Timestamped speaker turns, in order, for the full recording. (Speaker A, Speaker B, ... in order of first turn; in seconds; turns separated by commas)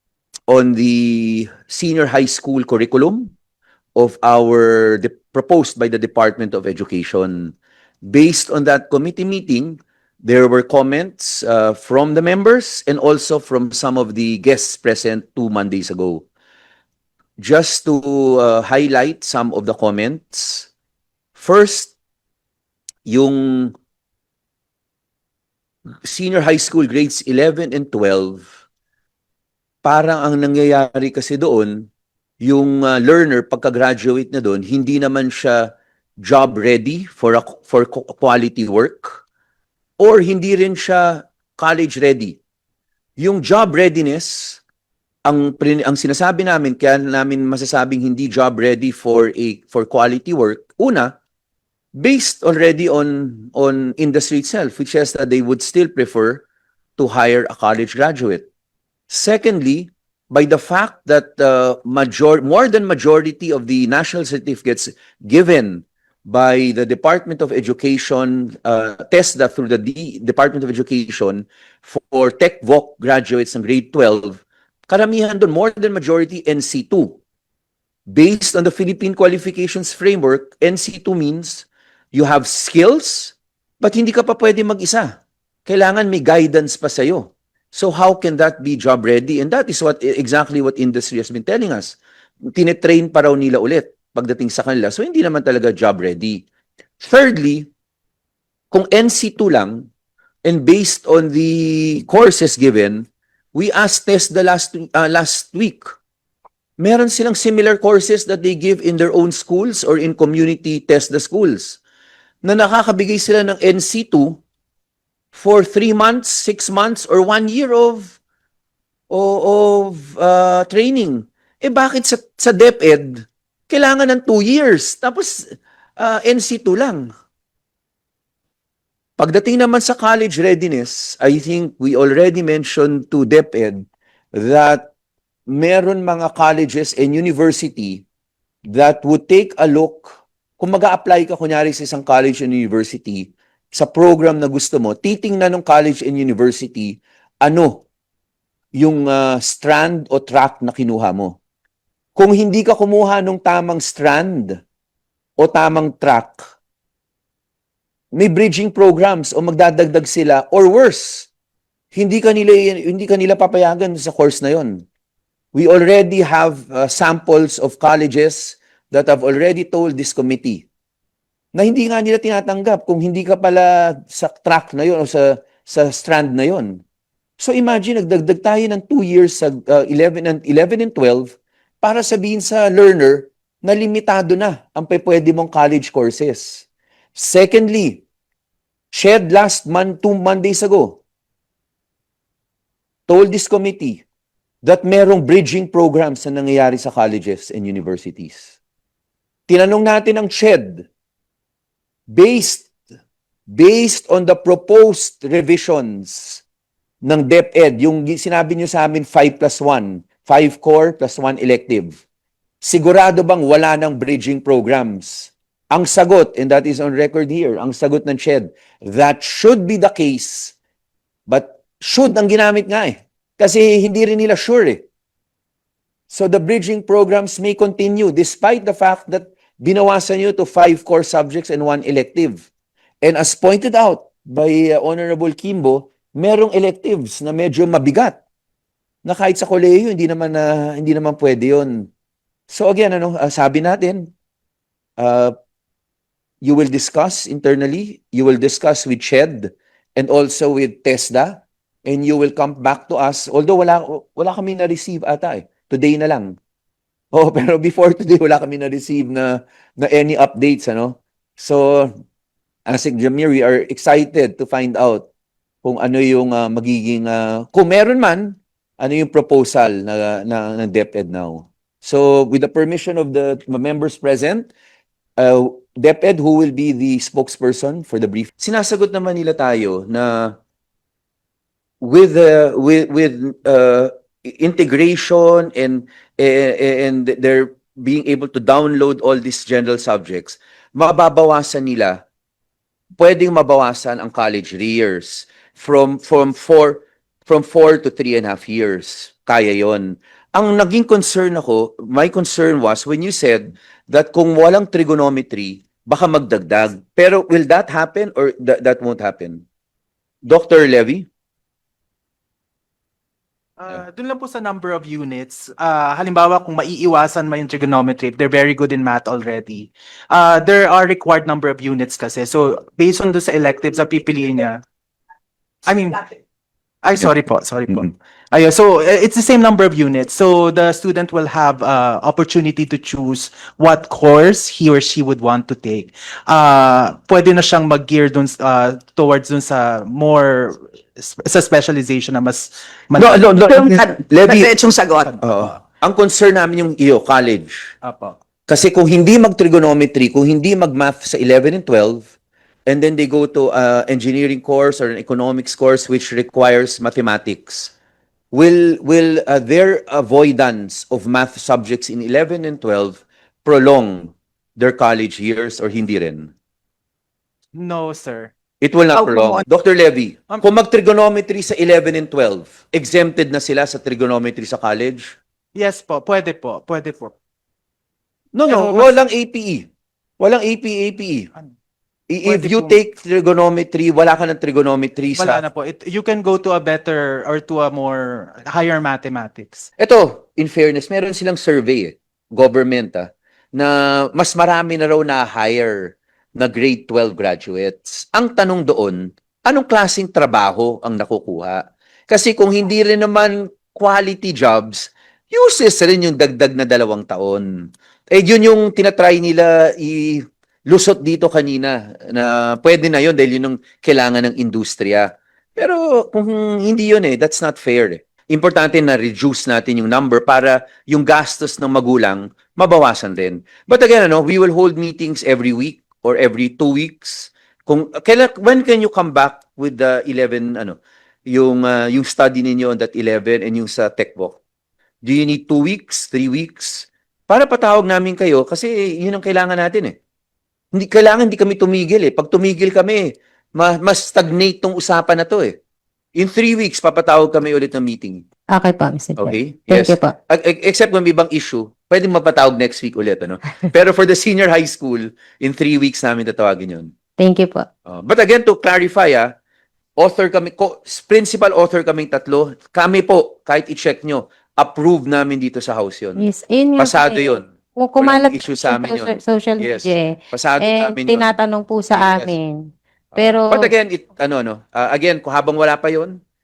Speaker A: 0.5-3.3, Speaker A: 4.0-7.5, Speaker A: 8.1-16.3, Speaker A: 17.4-20.7, Speaker A: 21.3-21.9, Speaker A: 23.1-23.7, Speaker A: 26.0-28.5, Speaker A: 29.8-31.9, Speaker A: 32.4-35.7, Speaker A: 36.2-39.2, Speaker A: 40.0-42.4, Speaker A: 43.2-44.6, Speaker A: 45.3-51.1, Speaker A: 52.0-56.4, Speaker A: 57.0-58.5, Speaker A: 59.1-77.2, Speaker A: 78.1-85.1, Speaker A: 85.7-92.0, Speaker A: 92.5-96.4, Speaker A: 97.0-97.7, Speaker A: 98.7-99.9, Speaker A: 100.4-105.9, Speaker A: 106.8-111.8, Speaker A: 112.4-114.4, Speaker A: 115.3-118.2, Speaker A: 119.1-125.4, Speaker A: 126.0-127.1, Speaker A: 129.2-133.8, Speaker A: 134.3-134.9, Speaker A: 135.5-138.0, Speaker A: 138.7-147.8, Speaker A: 148.8-151.3, Speaker A: 152.2-154.6, Speaker A: 155.4-156.5, Speaker A: 158.1-161.3, Speaker A: 161.9-164.8, Speaker A: 165.5-170.7, Speaker A: 171.5-176.8, Speaker A: 177.4-188.0, Speaker A: 188.9-191.0, Speaker A: 193.1-194.0, Speaker A: 194.6-198.5, Speaker A: 199.5-200.8, Speaker A: 202.1-202.7, Speaker A: 203.5-206.4, Speaker A: 207.0-212.0, Speaker A: 212.6-220.5, Speaker A: 221.3-224.8, Speaker A: 226.1-232.4, Speaker A: 233.0-238.2, Speaker A: 239.0-241.9, Speaker A: 242.5-244.1, Speaker A: 245.0-245.3, Speaker A: 246.4-256.4, Speaker A: 257.1-261.9, Speaker A: 262.7-265.1, Speaker A: 265.6-274.5, Speaker A: 275.2-280.4, Speaker A: 281.8-292.0, Speaker A: 293.0-309.4, Speaker A: 310.3-311.1, Speaker B: 313.6-324.6, Speaker B: 325.6-326.1, Speaker B: 326.8-343.3, Speaker A: 343.0-344.5, Speaker C: 343.6-345.1, Speaker B: 345.0-345.6, Speaker A: 345.2-347.7, Speaker B: 347.8-348.2, Speaker A: 348.5-352.1, Speaker A: 352.7-357.7, Speaker A: 358.3-366.3, Speaker B: 367.6-368.3, Speaker A: 368.6-375.2, Speaker C: 368.9-369.4, Speaker B: 375.6-377.1, Speaker A: 378.3-379.7, Speaker B: 378.5-379.0, Speaker A: 380.2-381.3, Speaker A: 382.1-385.4, Speaker B: 382.2-382.8, Speaker B: 385.1-389.7, Speaker A: 389.8-407.5, Speaker A: 408.1-430.8, Speaker A: 431.3-434.4, Speaker A: 435.1-440.0, Speaker A: 440.7-445.6, Speaker A: 446.1-448.2, Speaker D: 448.5-450.1, Speaker A: 449.2-456.9, Speaker D: 457.2-457.7, Speaker A: 457.9-459.3, Speaker A: 460.0-466.2, Speaker D: 466.2-473.7, Speaker A: 466.8-471.3, Speaker A: 471.9-472.3, Speaker A: 473.1-476.2